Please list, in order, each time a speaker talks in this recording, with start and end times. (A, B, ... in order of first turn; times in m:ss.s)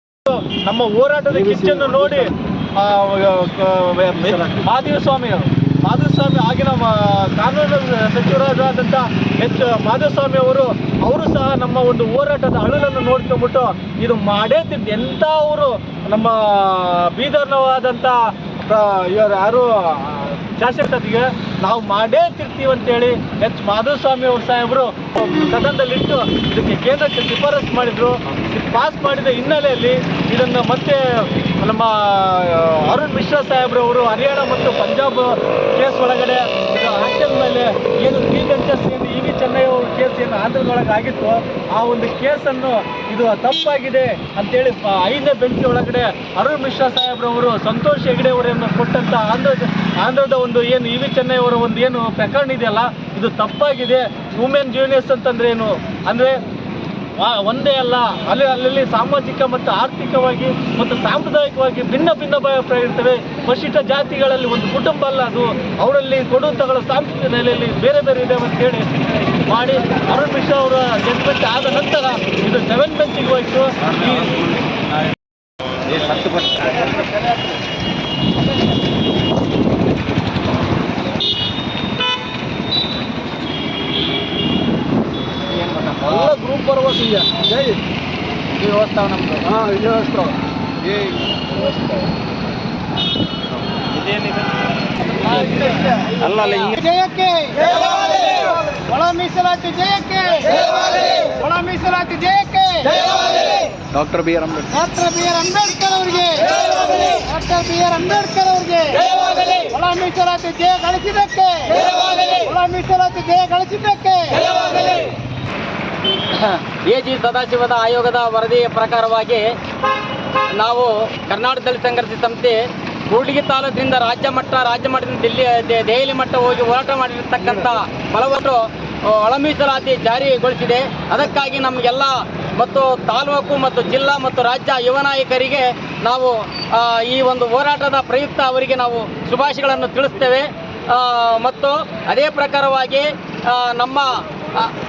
0:00.3-0:56.4 A
0:57.2-1:08.9 A
1:09.5-1:14.6 A
1:16.3-1:16.7 B
1:26.0-1:27.5 A
1:28.6-1:29.4 C
1:29.6-1:30.3 B
1:33.9-1:34.4 C
1:35.2-1:36.7 C
1:36.7-1:54.6 B
1:49.2-1:49.5 C
1:54.4-1:55.1 C
1:56.3-1:59.5 C
2:00.6-2:24.7 C